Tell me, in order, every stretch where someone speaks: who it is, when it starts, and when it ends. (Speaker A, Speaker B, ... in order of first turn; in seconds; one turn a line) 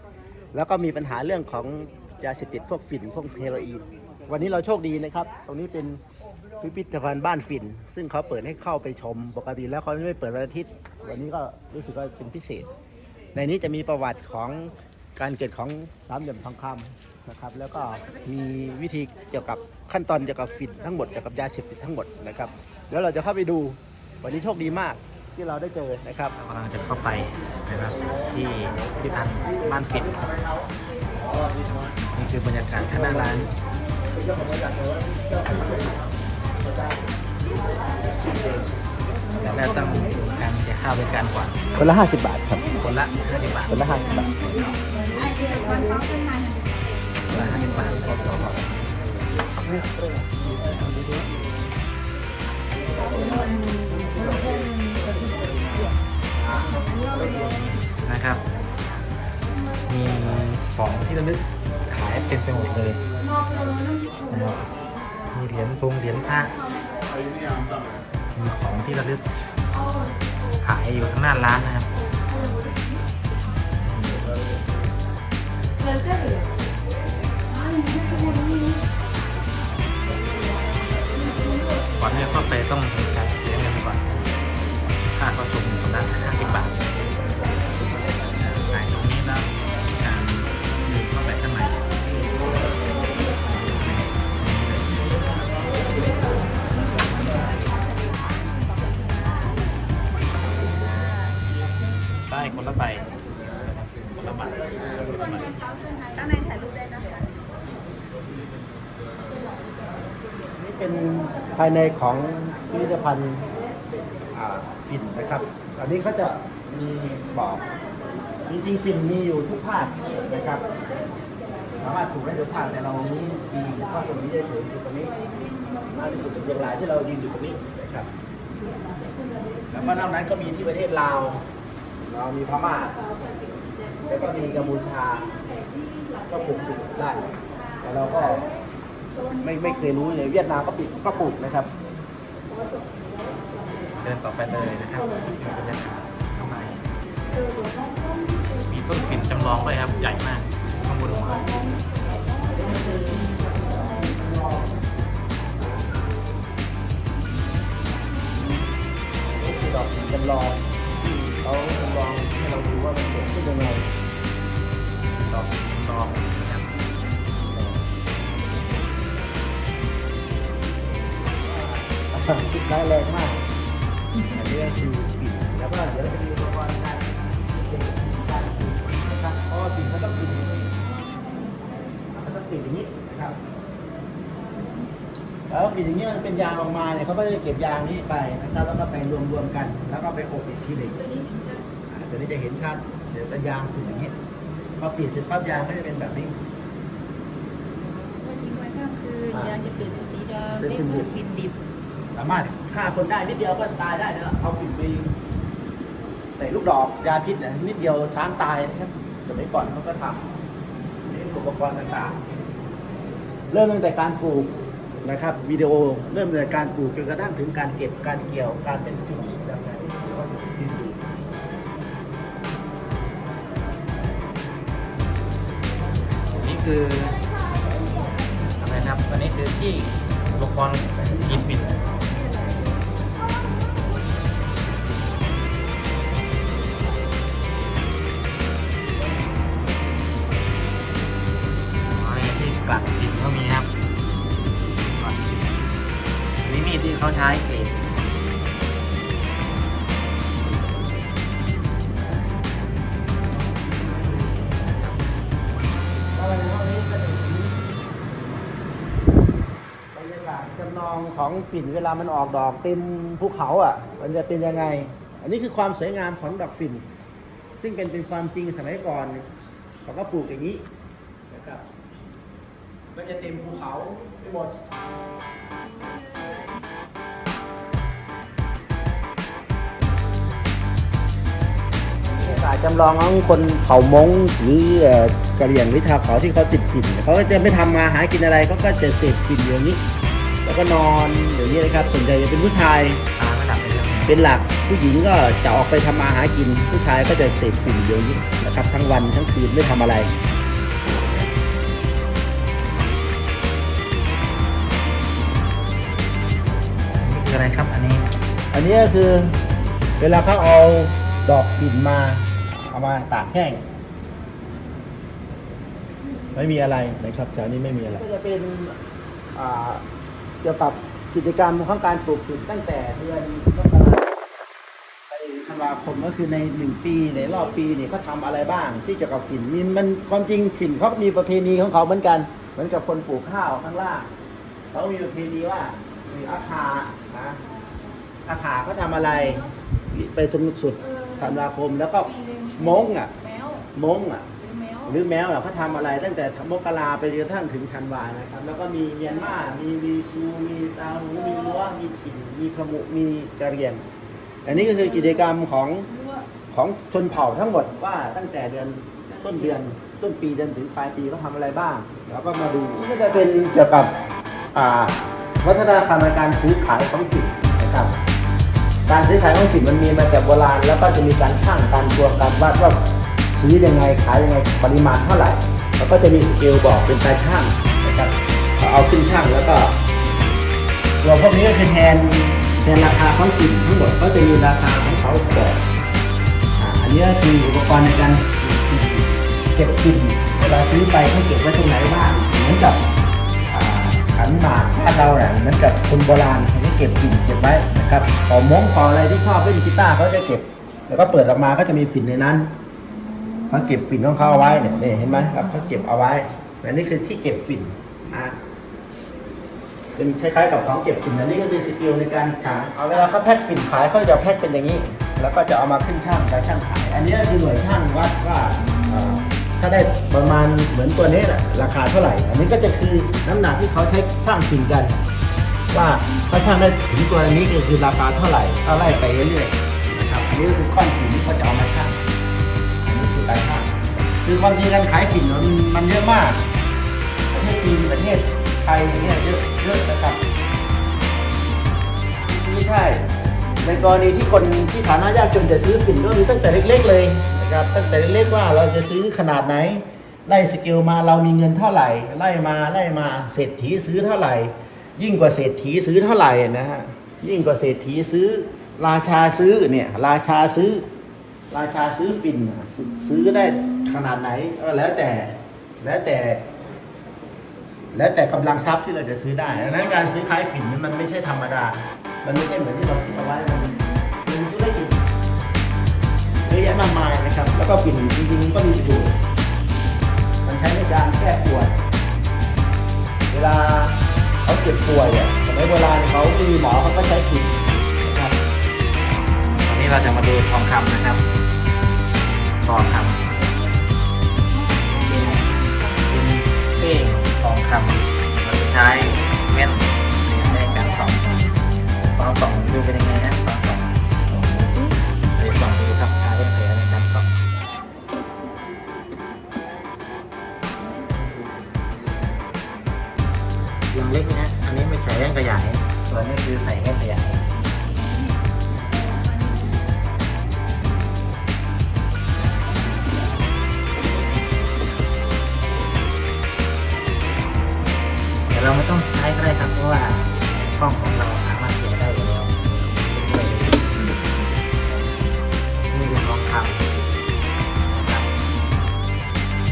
Speaker A: 0.5-6.0
Speaker A: 6.6-12.7
Speaker A: 13.3-26.4
Speaker B: 26.4-30.2
Speaker A: 28.1-32.0
Speaker B: 32.1-33.5
Speaker A: 34.1-36.0
Speaker A: 36.6-37.1
Speaker B: 39.4-41.6
Speaker A: 41.7-42.8
Speaker B: 42.7-43.8
Speaker A: 43.7-44.7
Speaker C: 45.4-46.7
Speaker B: 47.3-48.7
Speaker A: 49.5-50.4
Speaker B: 50.5-51.1
Speaker A: 52.9-57.5
Speaker B: 57.4-58.4
Speaker B: 59.9-63.0
Speaker B: 64.3-64.7
Speaker B: 65.3-66.5
Speaker B: 67.4-67.8
Speaker B: 68.3-69.2
Speaker B: 70.6-71.9
Speaker B: 73.8-74.3
Speaker B: 82.0-84.2
Speaker B: 85.1-86.8
Speaker B: 88.2-91.9
Speaker B: 93.3-95.3
Speaker C: 100.9-101.3
Speaker B: 102.3-105.6
Speaker C: 106.2-107.0
Speaker A: 110.6-113.4
Speaker A: 114.3-117.7
Speaker A: 118.5-120.7
Speaker A: 121.8-125.1
Speaker A: 125.9-128.1
Speaker A: 129.7-131.4
Speaker A: 132.1-132.9
Speaker A: 134.1-135.3
Speaker A: 136.2-138.5
Speaker A: 139.4-141.7
Speaker B: 144.0-146.8
Speaker B: 148.7-151.5
Speaker A: 152.4-154.8
Speaker A: 159.3-163.8
Speaker B: 165.2-166.7
Speaker A: 171.4-173.4
Speaker A: 174.3-180.6
Speaker A: 182.1-183.4
Speaker A: 185.5-191.1
Speaker C: 191.0-191.7
Speaker A: 191.9-194.1
Speaker A: 194.8-196.3
Speaker C: 198.2-201.6
Speaker A: 199.3-199.7
Speaker A: 200.5-201.2
Speaker A: 202.1-205.1
Speaker A: 206.3-210.2
Speaker A: 211.1-212.2
Speaker A: 213.5-221.0
Speaker B: 226.3-227.2
Speaker B: 228.6-231.7
Speaker B: 241.9-243.7
Speaker B: 244.9-245.4
Speaker B: 246.4-247.8
Speaker A: 256.1-257.6
Speaker A: 259.9-266.9
Speaker A: 267.6-269.3
Speaker A: 269.8-270.6
Speaker A: 271.3-271.6
Speaker A: 272.9-274.5
Speaker C: 275.6-276.6
Speaker A: 282.1-289.8
Speaker A: 290.4-293.0
Speaker B: 293.1-294.1
Speaker A: 294.1-300.1
Speaker B: 307.0-308.1
Speaker A: 308.5-309.3
Speaker A: 310.0-313.6
Speaker A: 316.3-318.7
Speaker A: 319.3-319.8
Speaker A: 320.4-324.1
Speaker A: 325.1-334.1
Speaker A: 334.7-337.4
Speaker A: 338.2-353.8
Speaker C: 343.2-343.6
Speaker C: 344.4-344.8
Speaker A: 354.4-355.9
Speaker A: 356.5-363.9
Speaker A: 364.5-368.0
Speaker A: 368.9-372.8
Speaker A: 373.3-379.8
Speaker A: 381.0-385.6
Speaker A: 386.6-392.8
Speaker A: 393.5-402.5
Speaker A: 403.4-408.4
Speaker A: 410.0-425.0
Speaker A: 425.7-431.9
Speaker A: 432.8-433.7
Speaker A: 434.2-436.4
Speaker A: 437.3-440.2
Speaker A: 442.2-443.0
Speaker A: 443.6-460.8
Speaker A: 461.5-466.4
Speaker A: 467.9-475.0
Speaker A: 476.4-479.2
Speaker A: 480.4-481.7
Speaker A: 483.3-488.4
Speaker B: 489.5-491.2
Speaker B: 492.6-493.3
Speaker C: 494.5-496.1
Speaker B: 495.1-495.4
Speaker B: 496.1-501.3
Speaker C: 501.4-501.8
Speaker B: 502.1-504.7
Speaker C: 504.6-504.9
Speaker B: 505.4-507.3
Speaker B: 513.9-517.5
Speaker C: 519.0-519.5
Speaker B: 528.5-534.1
Speaker C: 534.1-535.4
Speaker B: 535.9-536.9
Speaker B: 537.9-538.3